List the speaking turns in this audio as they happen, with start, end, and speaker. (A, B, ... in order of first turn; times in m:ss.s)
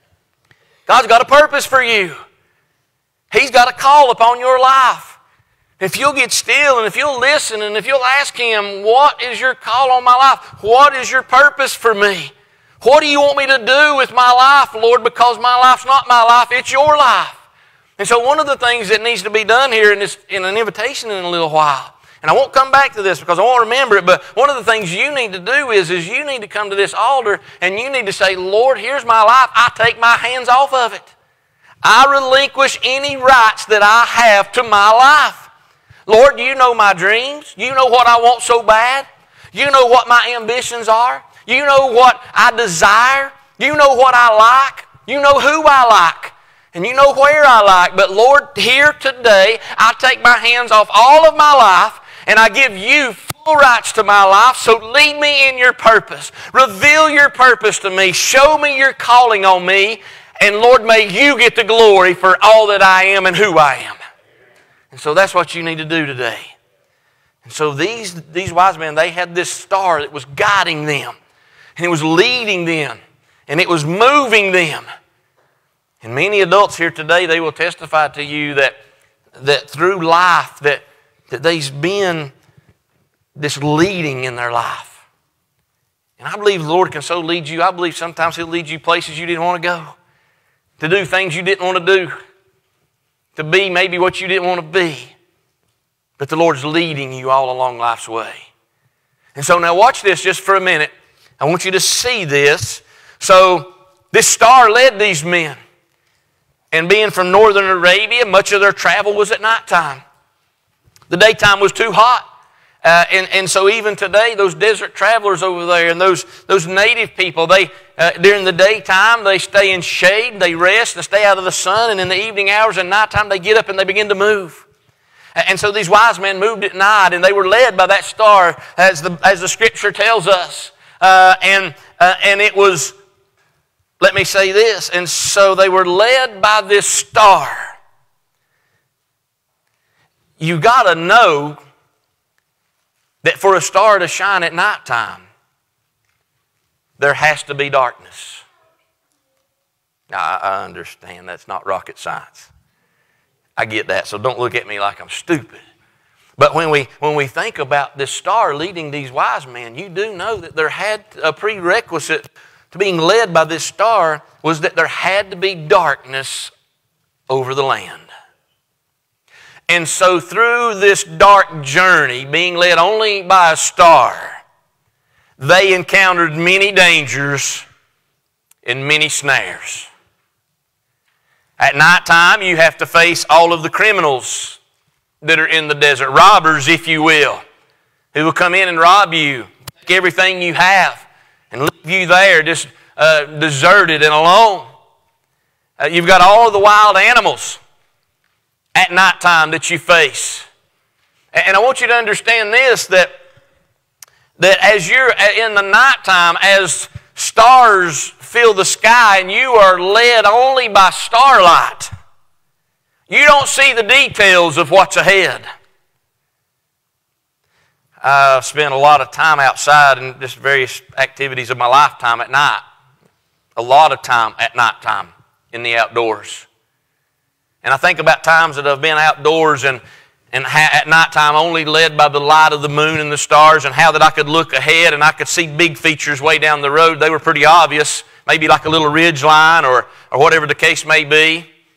0:00.9-0:02.2 A
0:03.3-0:05.2 A
0:05.8-0:17.4 A
0:18.0-0:31.1 A
0:31.8-0:35.5 A
0:36.1-1:04.0 A
1:04.9-1:06.5 A
1:07.4-1:11.1 A
1:11.8-1:13.0 A
1:13.5-1:14.8 A
1:16.0-1:18.7 A
1:19.4-1:22.3 A
1:23.4-1:25.0 A
1:26.2-1:29.9 A
1:30.8-1:32.1 A
1:33.4-1:35.1 A
1:36.2-1:38.5 A
1:39.3-1:45.6 A
1:46.7-1:50.0 A
1:51.1-1:52.2 A
1:52.8-2:04.6 A
2:05.4-2:13.0 A
2:14.0-2:17.7 A
2:20.4-2:21.6 A
2:23.2-2:25.2 A
2:27.0-2:28.4 A
2:30.1-2:32.5 A
2:33.6-2:35.6 A
2:36.4-2:46.5 A
2:47.3-2:48.1 A
2:49.7-2:54.4 A
2:55.4-2:57.6 A
2:58.6-2:59.9 A
3:01.6-3:04.6 A
3:05.2-3:07.4 A
3:08.1-3:14.6 A
3:15.8-3:17.6 A
3:18.7-3:20.5 A
3:21.3-3:23.1 A
3:24.4-3:31.9 A
3:33.1-3:35.4 A
3:38.0-3:42.6 A
3:43.6-3:46.4 A
3:47.6-3:49.8 A
3:50.3-4:01.5 A